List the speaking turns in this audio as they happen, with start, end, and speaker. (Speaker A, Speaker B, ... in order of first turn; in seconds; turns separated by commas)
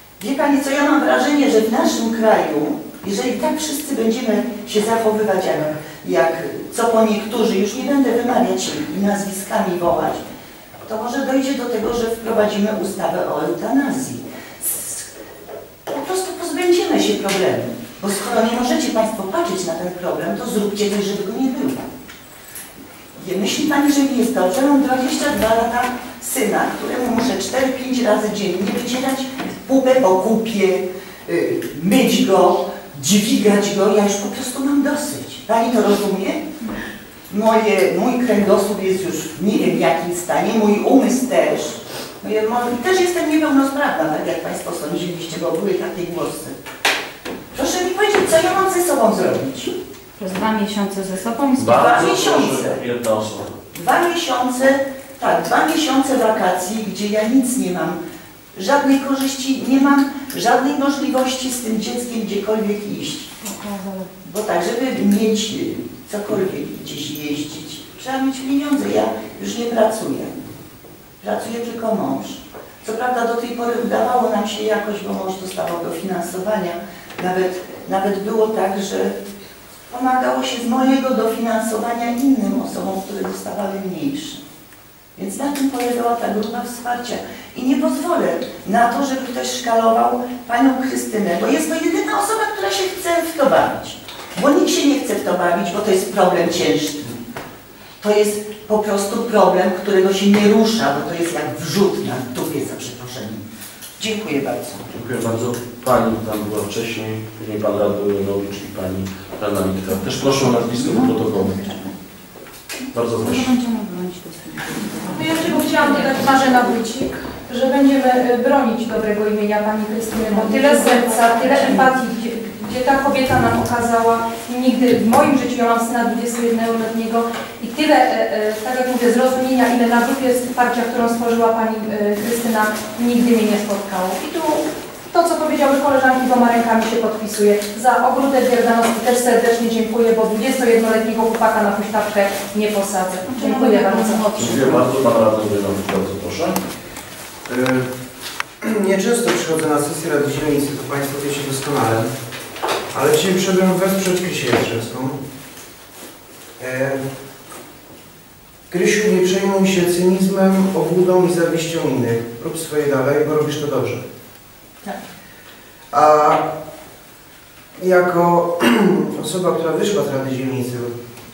Speaker A: 0.2-10.2, Speaker A: 10.9-15.0, Speaker A: 15.9-21.9, Speaker A: 23.2-36.5, Speaker A: 37.3-46.6, Speaker A: 47.5-49.8, Speaker B: 50.2-52.1, Speaker C: 51.6-53.6, Speaker A: 51.7-52.8, Speaker A: 53.7-58.0, Speaker A: 58.5-63.3, Speaker A: 64.2-70.4, Speaker A: 71.2-79.2, Speaker A: 79.9-84.4, Speaker A: 85.2-97.2, Speaker A: 98.0-103.4, Speaker A: 104.0-104.8, Speaker C: 104.9-111.6, Speaker C: 112.9-113.5, Speaker B: 113.2-116.1, Speaker D: 115.1-144.4, Speaker B: 120.3-121.9, Speaker B: 143.3-144.9, Speaker C: 144.4-146.6, Speaker E: 147.5-147.9, Speaker E: 148.6-152.1, Speaker E: 152.9-155.2, Speaker E: 156.6-157.0, Speaker E: 158.7-164.0, Speaker E: 165.9-166.5, Speaker E: 167.8-170.9